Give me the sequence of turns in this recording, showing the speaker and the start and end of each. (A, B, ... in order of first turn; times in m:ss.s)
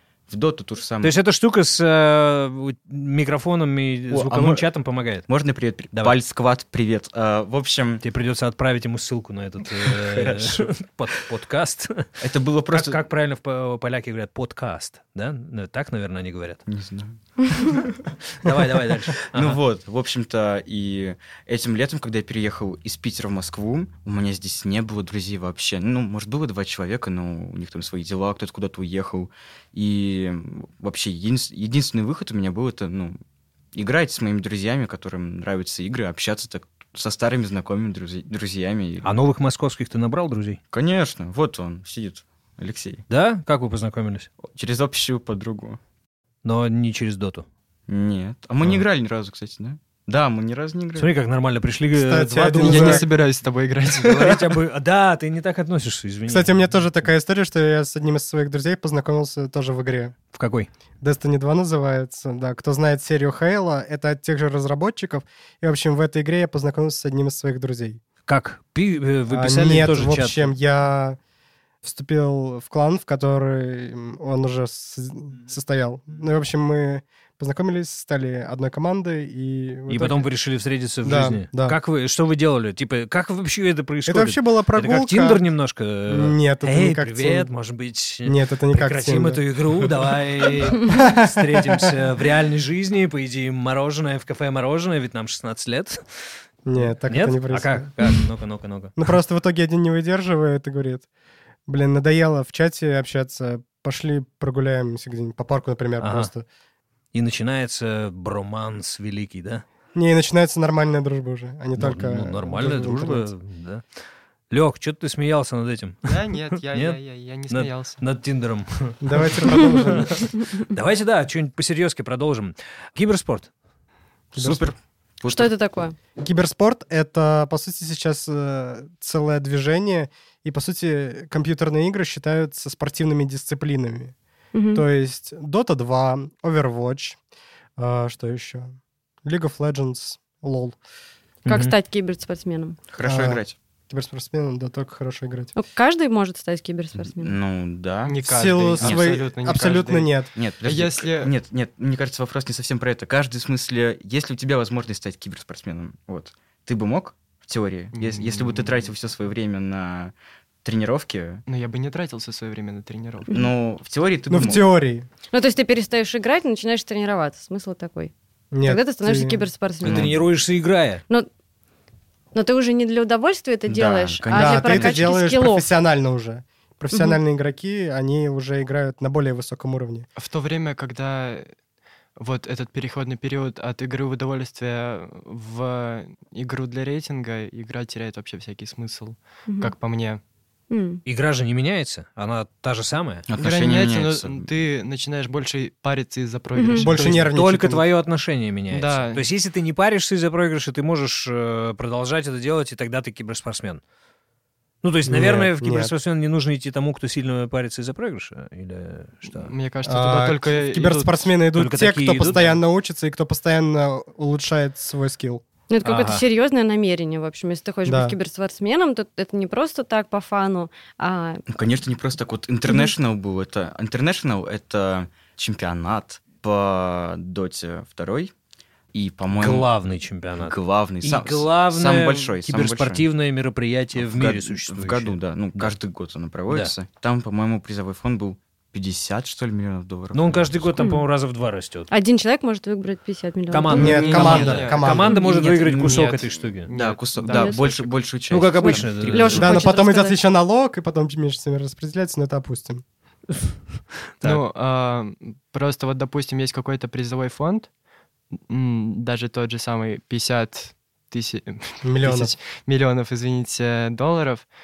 0:00.3-0:01.1 A
0:01.0-0:05.3 B
0:04.1-0:04.6 A
0:05.3-0:08.0 A
0:08.0-0:16.6 B
0:09.8-0:10.7 A
0:12.2-0:13.0 A
0:16.7-0:17.7 A
0:17.6-0:19.6 B
0:19.3-0:33.2 A
0:33.7-0:39.1 A
0:39.0-0:40.6 B
0:40.7-0:43.0 A
0:43.1-0:44.3 B
0:44.4-0:45.8 A
0:46.4-0:47.4 B
0:47.9-0:51.1 A
0:51.0-0:53.0 B
0:51.9-0:53.0 C
0:52.5-0:54.4 D
0:53.9-0:56.8 B
0:56.3-1:00.2 C
1:00.3-1:00.7 B
1:01.0-1:08.0 C
1:08.2-1:10.5 B
1:09.3-1:11.2 C
1:11.8-1:20.3 C
1:19.9-1:36.0 B
1:21.0-1:21.8 C
1:24.0-1:25.4 C
1:26.1-1:27.5 C
1:28.2-1:31.9 C
1:36.6-1:37.9 C
1:37.1-1:39.0 B
1:39.0-1:41.1 C
1:41.7-1:46.4 C
1:46.0-1:46.3 B
1:47.1-1:49.6 B
1:49.9-1:53.3 C
1:51.8-1:53.8 B
1:54.5-1:56.2 B
1:56.0-1:58.0 D
1:56.7-1:57.0 B
1:57.5-2:03.5 B
1:59.0-2:00.2 C
2:00.4-2:00.6 E
2:04.3-2:04.7 C
2:04.4-2:05.5 A
2:05.3-2:06.0 E
2:06.2-2:14.1 C
2:14.5-2:14.8 E
2:14.7-2:17.2 C
2:17.8-2:20.8 C
2:21.4-2:21.7 B
2:21.4-2:22.8 E
2:22.9-2:23.6 A
2:23.0-2:25.5 C
2:25.5-2:27.4 E
2:26.9-2:28.2 A
2:28.1-2:31.3 D
2:28.2-2:30.3 C
2:28.8-2:29.2 A
2:30.3-2:41.4 A
2:37.9-2:38.8 D
2:41.4-2:43.3 D
2:43.3-2:44.6 A
2:44.3-2:45.0 C
2:45.3-2:50.2 E
2:48.5-2:49.4 C
2:49.8-2:51.0 B
2:49.8-2:50.2 A
2:52.3-2:55.6 E
2:53.7-2:55.2 A
2:54.3-3:00.0 C
2:56.9-2:57.2 E
3:00.2-3:01.4 D
3:02.2-3:10.2 D
3:09.5-3:09.7 E
3:10.7-3:11.0 E
3:11.0-3:13.3 B
3:13.3-3:14.4 A
3:13.4-3:17.3 D
3:16.6-3:16.9 E
3:16.8-3:17.8 C
3:16.9-3:23.8 B
3:18.7-3:19.2 D
3:24.8-3:29.5 B
3:25.1-3:25.9 C
3:29.3-3:31.3 D
3:29.8-3:35.4 C
3:31.5-3:32.6 B
3:35.7-3:41.4 E
3:35.8-3:36.2 B
3:37.8-3:38.2 C
3:41.5-3:48.3 A
3:48.9-3:49.7 A
3:49.3-3:55.7 B
3:50.4-3:53.0 A
3:53.9-4:00.9 A
4:00.1-4:01.9 B
4:00.8-4:01.0 E
4:01.9-4:04.4 E
4:03.5-4:06.7 B
4:03.7-4:05.1 C
4:03.7-4:09.5 A
4:03.8-4:08.0 D
4:07.3-4:07.6 E
4:08.3-4:09.6 B
4:08.6-4:10.2 E
4:08.7-4:09.3 D
4:09.4-4:12.8 C
4:14.2-4:17.7 D
4:18.5-4:24.5 D
4:21.8-4:22.3 C